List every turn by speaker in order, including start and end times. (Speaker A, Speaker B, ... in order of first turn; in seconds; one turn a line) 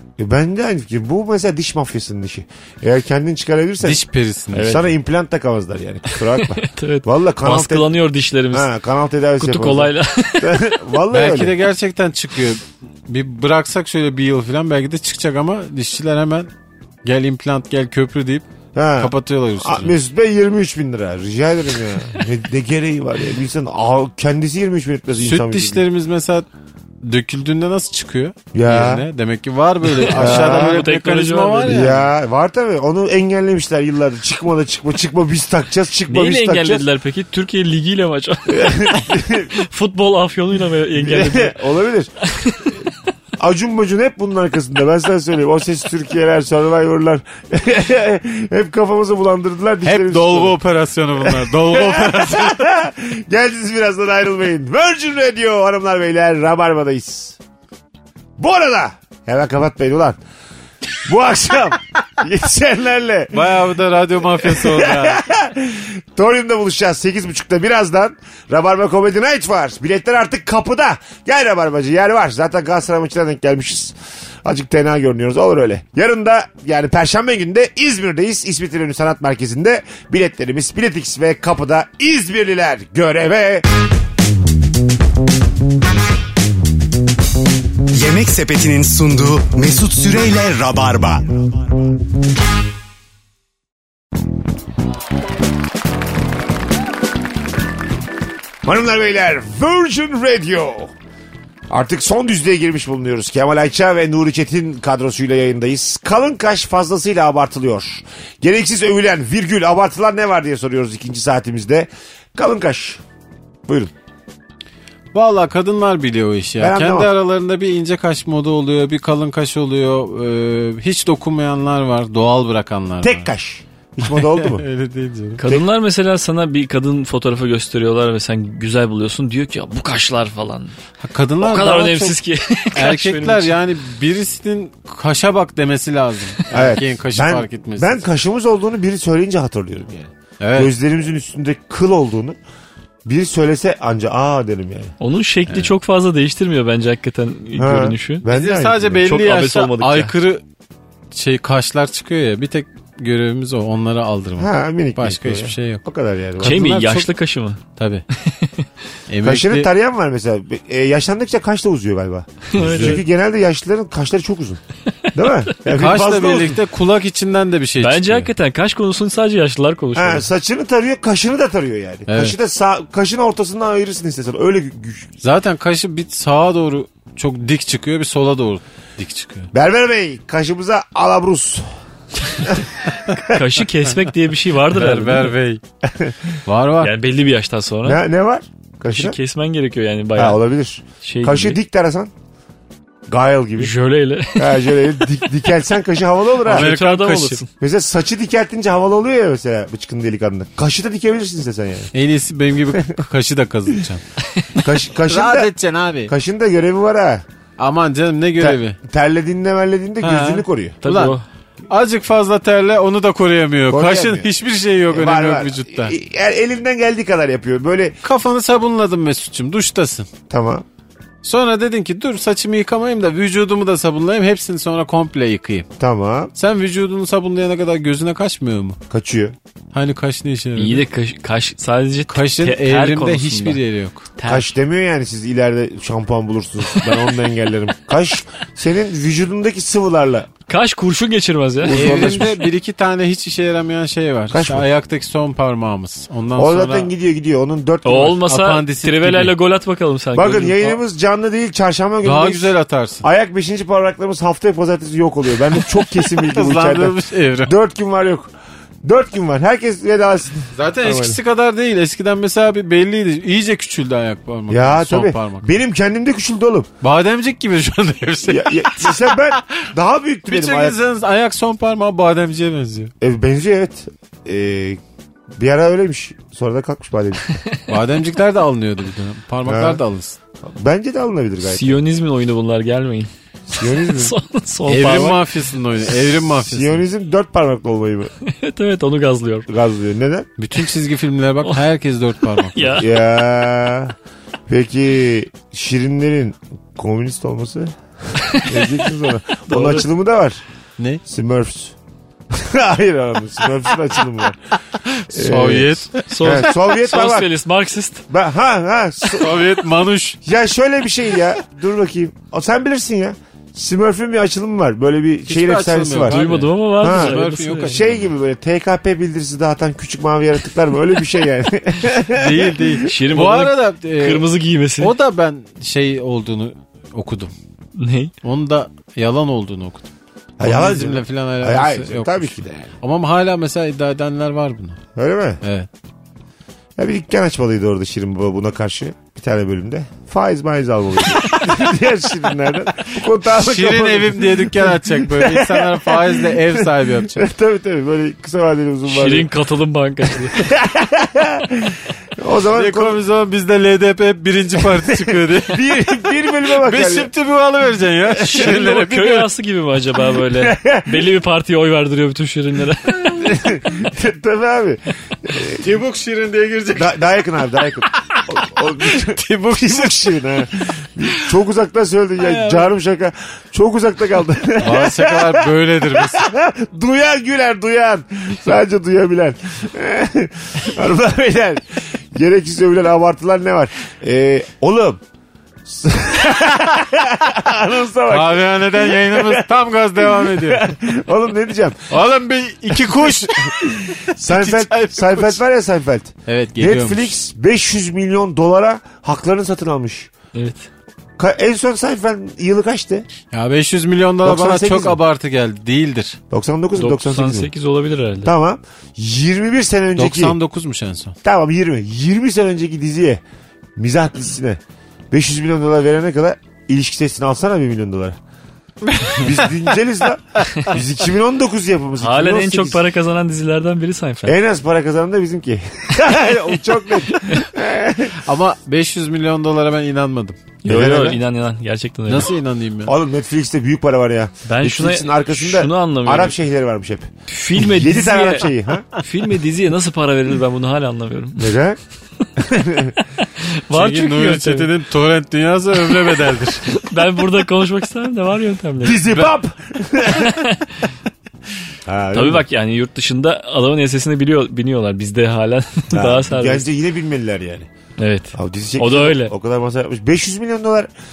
Speaker A: 0.2-4.0
Speaker B: 3.8-4.8
Speaker C: 4.5-4.8
Speaker A: 4.6-7.9
Speaker C: 6.1-8.7
Speaker A: 8.5-11.5
Speaker C: 9.4-10.8
Speaker B: 11.1-16.5
Speaker B: 17.0-19.9
Speaker A: 18.7-25.8
Speaker B: 25.2-26.5
Speaker B: 27.0-32.0
Speaker A: 28.5-29.1
Speaker C: 29.9-31.9
Speaker A: 30.1-30.8
Speaker A: 31.6-36.8
Speaker C: 36.1-41.6
Speaker A: 38.5-39.5
Speaker A: 41.0-42.1
Speaker C: 42.2-42.8
Speaker A: 43.4-50.6
Speaker B: 49.8-52.7
Speaker A: 51.2-57.4
Speaker A: 58.4-60.2
Speaker A: 61.0-63.5
Speaker B: 63.3-65.2
Speaker A: 64.4-83.7
Speaker D: 87.9-91.4
Speaker A: 98.6-100.9
Speaker A: 101.7-113.0
Speaker A: 113.7-113.9
Speaker B: 115.1-123.3
Speaker A: 116.6-117.1
Speaker A: 123.0-124.6
Speaker B: 124.0-125.4
Speaker C: 125.4-130.8
Speaker B: 131.0-132.2
Speaker C: 131.4-133.5
Speaker B: 132.7-138.0
Speaker A: 136.5-142.4
Speaker B: 140.4-140.7
Speaker A: 143.1-144.9
Speaker C: 145.0-148.3
Speaker A: 147.5-149.0
Speaker B: 148.3-150.4
Speaker C: 149.0-150.1
Speaker B: 151.1-155.8
Speaker A: 154.4-156.6
Speaker B: 156.4-157.1
Speaker C: 156.4-157.6
Speaker B: 157.8-158.0
Speaker C: 158.2-158.6
Speaker B: 159.1-159.7
Speaker A: 159.2-164.6
Speaker C: 162.5-163.0
Speaker B: 162.6-163.0
Speaker A: 165.1-166.6
Speaker B: 165.6-168.3
Speaker C: 167.8-170.3
Speaker A: 169.9-175.1
Speaker B: 172.1-172.3
Speaker B: 175.2-179.5
Speaker A: 179.5-181.7
Speaker A: 182.4-183.4
Speaker C: 182.9-185.3
Speaker B: 184.7-185.6
Speaker A: 185.8-186.2
Speaker B: 186.4-186.9
Speaker C: 186.8-188.0
Speaker A: 187.8-189.2
Speaker C: 188.9-190.4
Speaker A: 190.2-192.1
Speaker C: 191.0-191.6
Speaker A: 193.1-193.7
Speaker C: 193.6-194.8
Speaker A: 194.3-196.7
Speaker C: 196.4-197.5
Speaker B: 196.4-197.4
Speaker A: 197.6-201.9
Speaker B: 201.9-204.0
Speaker A: 202.7-203.0
Speaker A: 204.6-205.5
Speaker B: 205.1-206.1
Speaker A: 206.1-207.2
Speaker B: 207.6-208.8
Speaker A: 208.4-210.8
Speaker B: 210.0-211.2
Speaker C: 210.8-211.2
Speaker B: 211.7-215.9
Speaker A: 213.7-214.3
Speaker A: 214.9-217.9
Speaker B: 218.0-220.1
Speaker A: 220.3-220.6
Speaker B: 221.2-225.7
Speaker A: 225.8-226.3
Speaker B: 226.3-228.8
Speaker A: 228.9-229.3
Speaker B: 229.7-230.8
Speaker C: 230.6-233.6
Speaker B: 232.1-234.1
Speaker C: 234.2-234.5
Speaker A: 234.2-240.3
Speaker C: 236.8-237.1
Speaker C: 240.5-242.2
Speaker A: 241.6-242.4
Speaker B: 241.7-246.9
Speaker A: 244.3-244.7
Speaker A: 246.3-248.2
Speaker C: 247.8-250.7
Speaker B: 248.2-249.3
Speaker A: 250.1-258.3
Speaker B: 252.0-253.0
Speaker B: 256.0-257.5
Speaker A: 258.8-261.2
Speaker B: 260.5-265.5
Speaker A: 264.5-266.7
Speaker B: 266.8-269.7
Speaker A: 268.2-270.8
Speaker B: 270.3-272.9
Speaker A: 273.0-274.8
Speaker A: 275.4-277.4
Speaker B: 277.7-280.2
Speaker A: 279.4-279.8
Speaker A: 280.4-281.8
Speaker C: 281.4-285.3
Speaker A: 283.5-284.1
Speaker B: 284.7-286.8
Speaker A: 286.4-288.1
Speaker C: 288.2-289.5
Speaker A: 289.5-290.3
Speaker B: 290.4-292.8
Speaker C: 292.4-292.9
Speaker A: 292.8-293.9
Speaker A: 294.5-297.7
Speaker C: 298.2-298.7
Speaker A: 298.3-300.4
Speaker C: 299.5-299.8
Speaker A: 301.0-301.7
Speaker A: 302.3-304.4
Speaker B: 304.8-306.3
Speaker A: 305.1-307.3
Speaker C: 306.1-308.0
Speaker A: 308.1-309.4
Speaker B: 309.1-310.2
Speaker A: 310.2-322.7
Speaker B: 315.3-318.1
Speaker C: 316.1-317.8
Speaker B: 322.1-327.3
Speaker C: 322.8-324.9
Speaker C: 327.8-328.1
Speaker B: 328.2-329.9
Speaker A: 330.4-332.7
Speaker B: 330.4-334.8
Speaker A: 334.9-335.4
Speaker B: 335.4-335.7
Speaker A: 336.8-349.3
Speaker B: 343.3-347.3
Speaker C: 348.9-350.5
Speaker A: 350.3-353.0
Speaker B: 352.5-355.8
Speaker A: 354.8-357.1
Speaker B: 356.4-359.3
Speaker C: 358.2-363.4
Speaker A: 360.3-361.0
Speaker A: 363.2-365.6
Speaker B: 365.5-367.0
Speaker A: 366.8-385.0
Speaker B: 368.8-370.2
Speaker B: 374.6-376.3
Speaker A: 385.6-391.9
Speaker B: 388.1-390.7
Speaker B: 391.9-395.4
Speaker A: 392.9-400.1
Speaker B: 396.3-397.1
Speaker C: 400.3-400.7
Speaker A: 401.2-403.1
Speaker B: 403.3-406.2
Speaker A: 404.2-405.0
Speaker A: 406.3-407.5
Speaker C: 406.8-408.3
Speaker A: 408.2-410.4
Speaker B: 409.9-411.1
Speaker A: 411.2-413.2
Speaker A: 413.8-414.6
Speaker A: 415.1-418.2
Speaker B: 418.9-419.2
Speaker A: 419.0-422.8
Speaker C: 422.0-424.4
Speaker A: 424.2-428.2
Speaker B: 428.2-430.4
Speaker C: 430.6-432.3
Speaker A: 430.6-431.2
Speaker B: 432.1-432.9
Speaker A: 432.8-438.9
Speaker C: 434.5-436.4
Speaker C: 437.3-441.6
Speaker A: 441.4-441.8
Speaker A: 442.4-443.0
Speaker C: 443.4-444.7
Speaker B: 443.7-446.6
Speaker C: 446.7-449.1
Speaker A: 448.8-450.4
Speaker C: 450.2-450.9
Speaker A: 451.9-452.4
Speaker C: 452.1-456.7
Speaker A: 455.9-457.7
Speaker C: 458.0-459.3
Speaker A: 458.3-460.9